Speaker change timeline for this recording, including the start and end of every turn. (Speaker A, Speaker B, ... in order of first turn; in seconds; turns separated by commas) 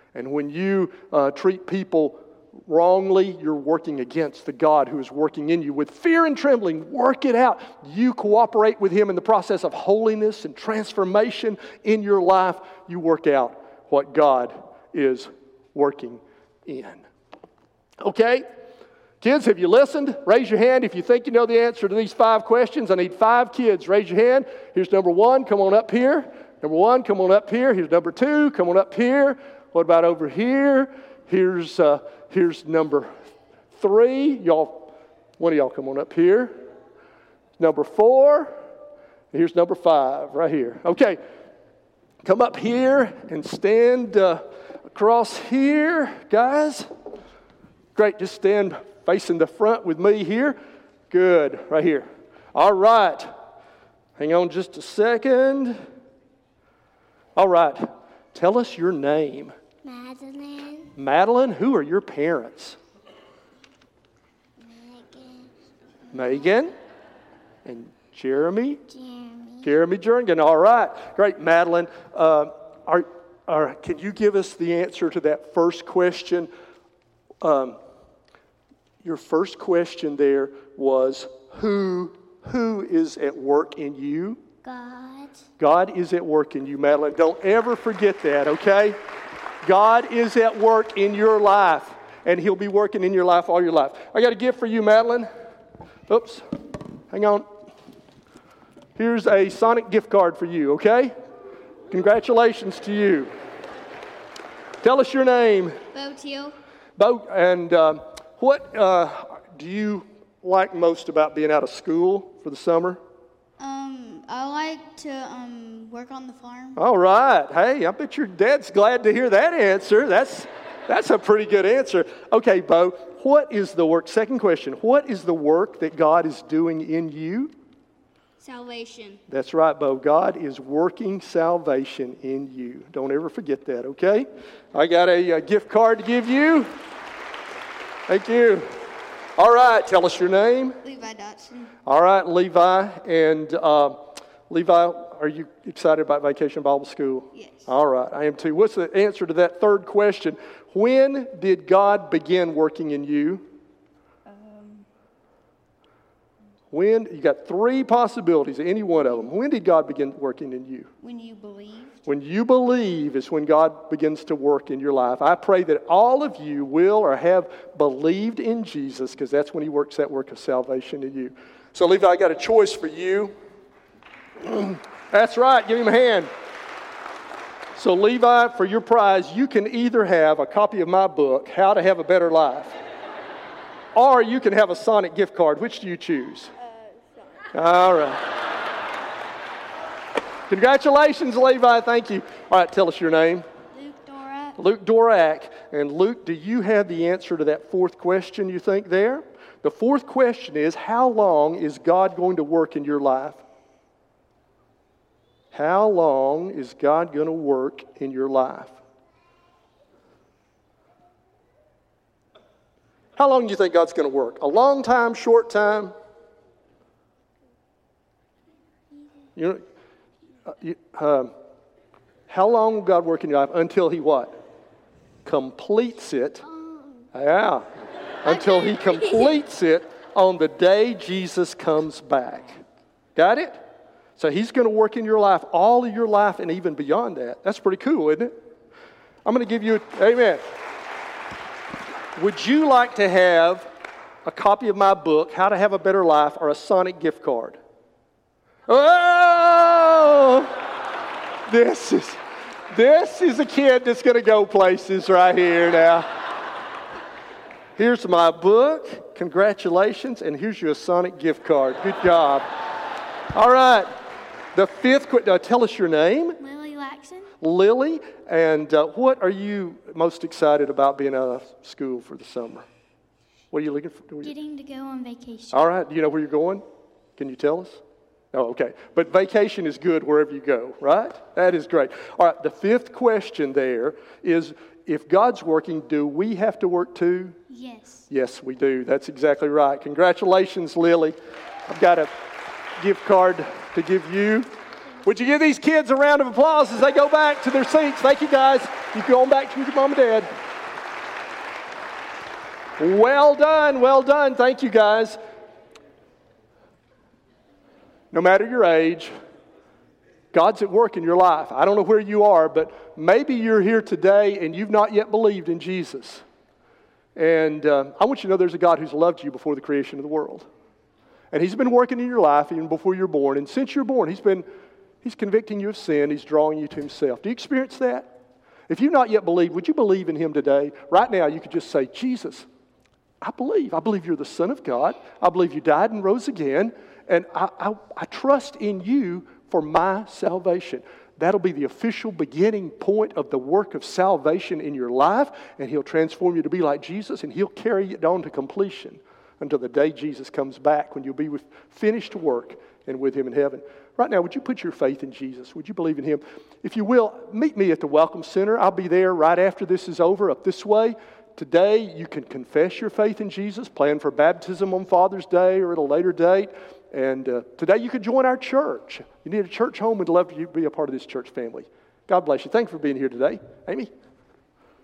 Speaker A: 0.1-17.0, Speaker A: 18.0-18.5, Speaker A: 19.2-33.1, Speaker A: 33.8-36.5, Speaker A: 37.6-38.5, Speaker A: 39.3-41.2, Speaker A: 42.2-46.9, Speaker A: 48.0-50.6, Speaker A: 51.1-53.3, Speaker A: 54.2-55.8, Speaker A: 57.4-59.6, Speaker B: 59.8-60.9, Speaker A: 61.0-62.8, Speaker B: 64.6-65.5, Speaker A: 66.1-66.7, Speaker A: 67.7-68.8, Speaker B: 68.9-69.7, Speaker A: 69.6-76.5, Speaker A: 77.4-77.8, Speaker A: 79.0-84.4, Speaker B: 84.6-85.5, Speaker A: 85.6-89.0, Speaker A: 89.6-95.3, Speaker A: 96.1-96.5, Speaker A: 97.1-97.5, Speaker A: 99.0-101.2, Speaker A: 101.9-103.3, Speaker A: 104.8-105.8, Speaker B: 105.9-106.5, Speaker A: 107.0-113.0, Speaker B: 113.6-116.8, Speaker A: 116.8-127.5, Speaker B: 128.4-129.2, Speaker A: 129.3-136.7, Speaker A: 138.1-138.7, Speaker A: 139.4-140.8, Speaker B: 140.8-141.7, Speaker A: 141.9-153.4, Speaker B: 147.3-147.8, Speaker B: 154.3-154.8, Speaker A: 156.7-160.9, Speaker B: 161.0-162.1, Speaker A: 162.1-173.3, Speaker A: 174.4-176.3, Speaker A: 177.8-182.8, Speaker A: 183.9-186.5, Speaker A: 187.5-188.3, Speaker A: 190.5-193.5, Speaker B: 193.7-194.6, Speaker A: 194.6-203.4, Speaker A: 205.5-208.8, Speaker A: 213.2-215.9, Speaker A: 219.4-219.6, Speaker A: 220.5-221.3, Speaker A: 222.3-224.4, Speaker A: 225.2-226.4, Speaker B: 226.4-227.1, Speaker A: 227.1-227.7, Speaker A: 228.2-232.6, Speaker B: 228.3-229.4, Speaker A: 233.2-233.6, Speaker A: 234.2-238.3, Speaker A: 239.2-240.4, Speaker A: 242.2-243.7, Speaker A: 244.2-247.6, Speaker A: 248.7-250.5, Speaker A: 251.5-252.2, Speaker A: 252.7-256.1, Speaker A: 257.8-262.5, Speaker A: 263.3-263.9, Speaker A: 264.5-266.4, Speaker B: 266.4-267.4, Speaker A: 267.4-272.6, Speaker A: 273.5-274.3, Speaker B: 274.2-275.7, Speaker A: 275.5-276.6, Speaker A: 277.2-277.8, Speaker A: 278.3-287.4, Speaker B: 287.5-288.1, Speaker A: 288.1-291.2, Speaker A: 291.7-292.1, Speaker A: 292.8-294.5, Speaker A: 295.1-300.3, Speaker A: 302.8-305.2, Speaker A: 308.1-309.1, Speaker A: 310.3-316.2, Speaker A: 317.2-320.5, Speaker A: 321.3-324.5, Speaker A: 325.0-328.1, Speaker A: 328.7-332.5, Speaker A: 333.2-373.9